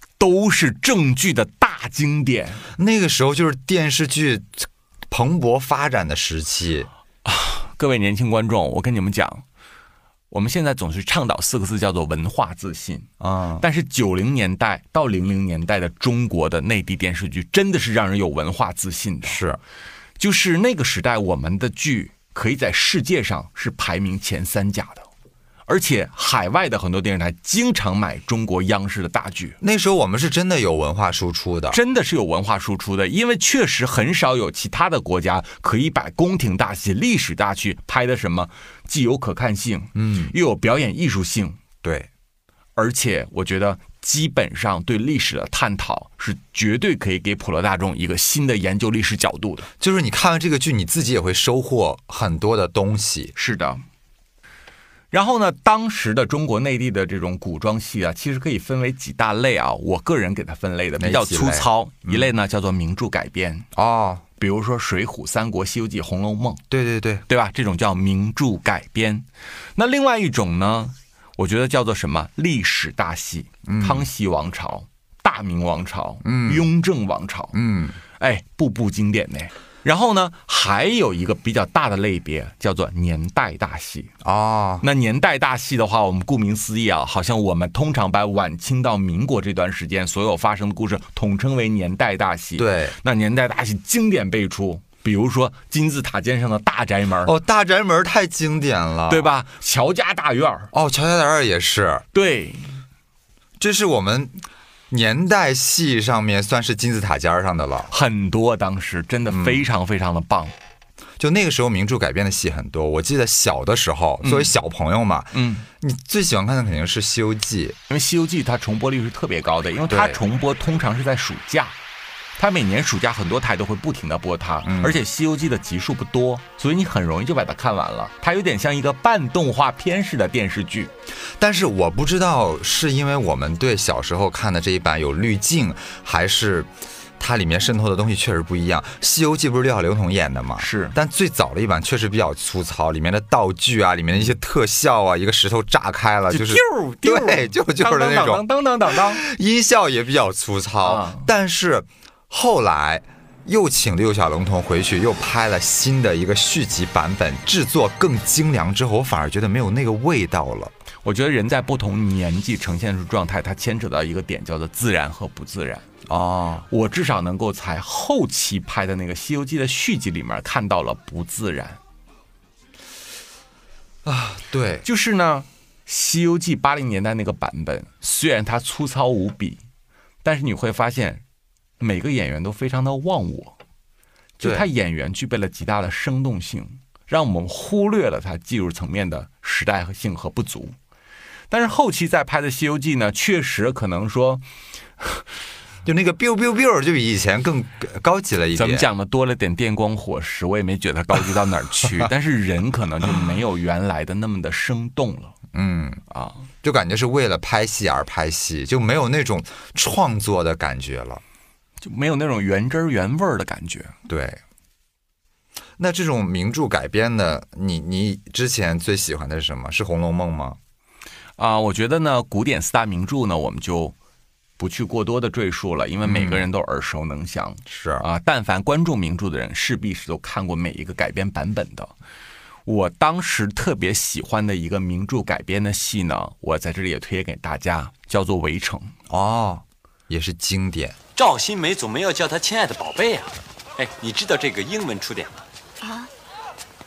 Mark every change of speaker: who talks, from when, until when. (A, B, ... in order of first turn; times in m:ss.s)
0:00.2-0:02.6 A
0:02.8-0:06.9 B
0:07.2-0:09.4 A
0:10.3-0:13.1 A
0:13.2-0:13.6 B
0:13.6-0:19.4 A
0:19.2-0:19.6 B
0:20.2-0:25.1 A
0:25.7-0:29.6 A
0:29.6-0:31.8 B
0:31.7-0:41.6 A
0:40.0-0:40.3 B
0:41.8-0:42.1 B
0:42.8-0:49.7 A
0:49.8-0:53.4 B
0:53.4-0:53.8 A
0:55.1-1:03.7 A
1:01.0-1:02.3 B
1:03.8-1:04.2 B
1:04.4-1:06.6 A
1:06.7-1:07.2 B
1:07.3-1:17.6 A
1:13.6-1:14.1 B
1:16.2-1:16.7 B
1:17.5-1:18.0 B
1:18.2-1:24.1 A
1:24.2-1:24.8 B
1:24.8-1:37.3 A
1:32.6-1:33.0 B
1:37.2-1:39.3 B
1:39.1-1:40.7 A
1:40.7-1:42.1 B
1:42.1-1:42.8 A
1:43.6-1:47.9 B
1:47.9-1:50.6 A
1:49.3-1:49.7 B
1:51.2-1:57.8 B
1:54.2-1:54.5 A
1:55.3-1:55.6 A
1:57.9-2:01.8 A
1:59.9-2:00.2 B
2:02.4-2:10.9 A
2:04.6-2:05.0 B
2:11.4-2:40.7 B
2:20.6-2:21.0 A
2:26.3-2:29.2 A
2:30.8-2:31.3 A
2:41.0-2:45.9 A
2:46.1-2:46.7 B
2:46.7-2:51.8 A
2:54.0-2:54.9 B
2:54.8-2:59.6 A
3:00.2-3:01.2 A
3:01.8-3:03.6 A
3:04.4-3:10.8 A
3:04.4-3:04.7 B
3:11.5-3:14.4 A
3:15.8-3:18.9 B
3:18.6-3:25.4 A
3:25.5-3:26.0 B
3:26.1-3:26.4 A
3:26.6-3:31.2 B
3:31.8-3:33.9 A
3:34.1-3:34.4 B
3:35.8-3:40.6 B
3:41.4-3:44.0 A
3:44.6-3:51.9 A
3:46.0-3:46.5 B
3:47.7-3:48.0 B
3:52.7-3:58.9 A
3:59.1-4:01.0 B
4:01.2-4:05.4 C